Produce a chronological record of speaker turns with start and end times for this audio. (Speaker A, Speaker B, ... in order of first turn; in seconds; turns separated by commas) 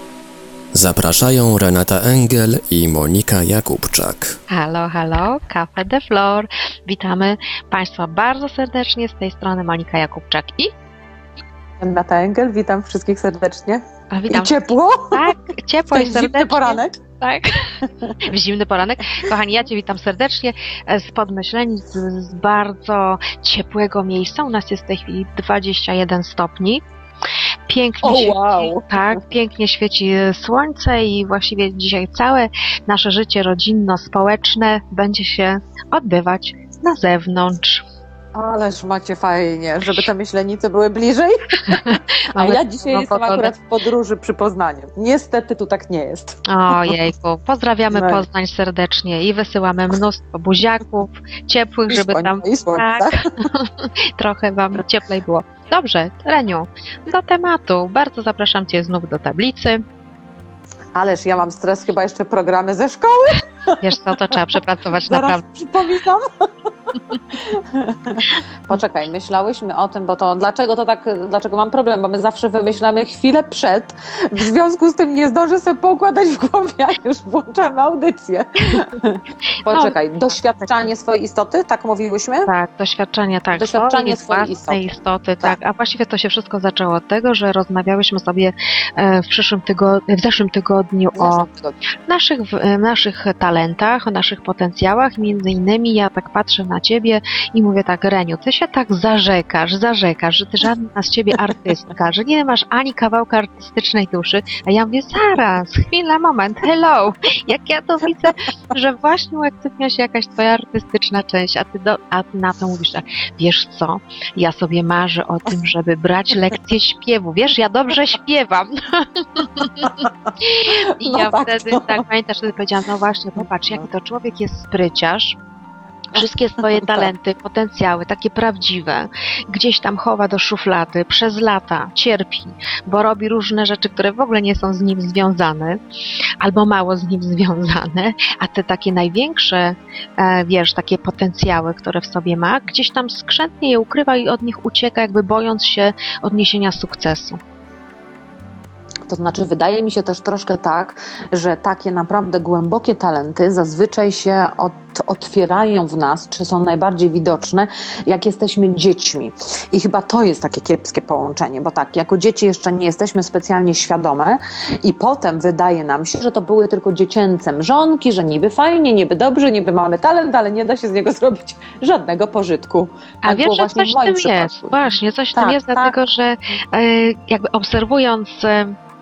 Speaker A: 0.7-4.4, Speaker B: 4.5-10.7, Speaker C: 11.8-15.2, Speaker B: 14.1-26.8, Speaker C: 15.9-17.0, Speaker C: 17.9-18.1, Speaker B: 27.7-37.8, Speaker C: 28.0-28.8, Speaker C: 38.3-47.0, Speaker B: 41.6-43.5, Speaker B: 46.5-59.8, Speaker C: 47.9-48.2, Speaker C: 51.9-53.2, Speaker C: 60.9-63.8, Speaker B: 63.8-65.4, Speaker C: 65.1-82.5, Speaker B: 79.7-79.9, Speaker B: 82.5-91.5, Speaker C: 83.5-84.8, Speaker C: 91.1-91.8, Speaker B: 92.1-125.4, Speaker C: 119.8-120.1, Speaker C: 120.6-122.0, Speaker B: 126.1-135.8, Speaker C: 126.2-127.0, Speaker B: 136.4-147.4, Speaker C: 149.1-175.9, Speaker B: 173.2-178.8